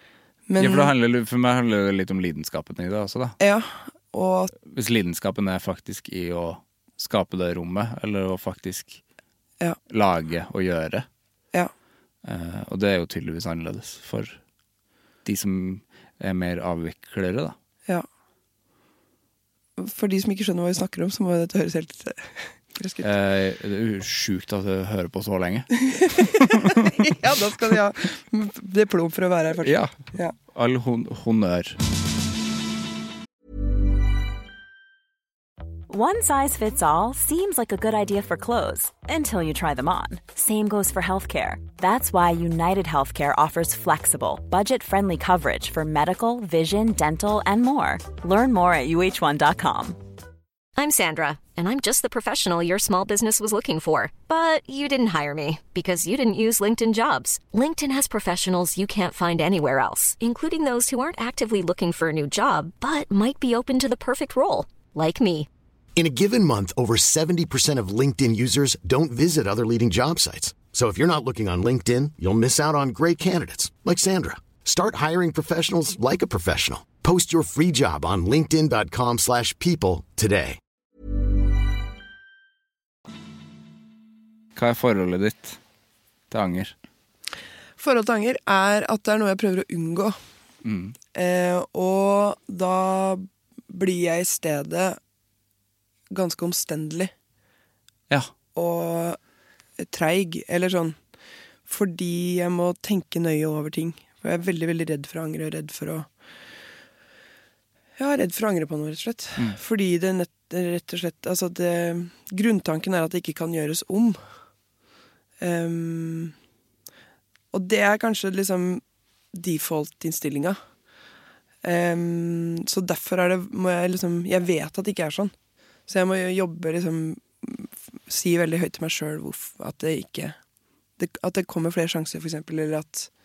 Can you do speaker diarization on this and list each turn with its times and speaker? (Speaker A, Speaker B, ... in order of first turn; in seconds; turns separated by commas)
Speaker A: 0.5-0.9, Speaker B: 0.6-3.4, Speaker A: 3.4-4.5, Speaker B: 4.6-9.0, Speaker B: 9.9-11.1, Speaker B: 12.2-14.4, Speaker B: 15.2-17.5, Speaker A: 19.8-23.1, Speaker B: 23.0-27.0, Speaker A: 25.8-30.3, Speaker B: 29.6-29.9, Speaker B: 30.5-31.8, Speaker C: 35.9-50.0, Speaker D: 50.8-65.5, Speaker E: 65.9-80.6, Speaker B: 84.5-85.6, Speaker B: 86.3-86.7, Speaker A: 87.8-90.2, Speaker B: 90.6-90.9, Speaker A: 91.1-95.0, Speaker A: 96.1-97.1, Speaker A: 98.5-99.2, Speaker A: 99.8-101.0, Speaker A: 101.7-106.1, Speaker A: 108.0-114.2, Speaker A: 115.4-116.3, Speaker A: 117.5-118.8, Speaker A: 119.3-120.6, Speaker A: 121.6-125.3, Speaker A: 125.9-130.3, Speaker A: 131.0-133.1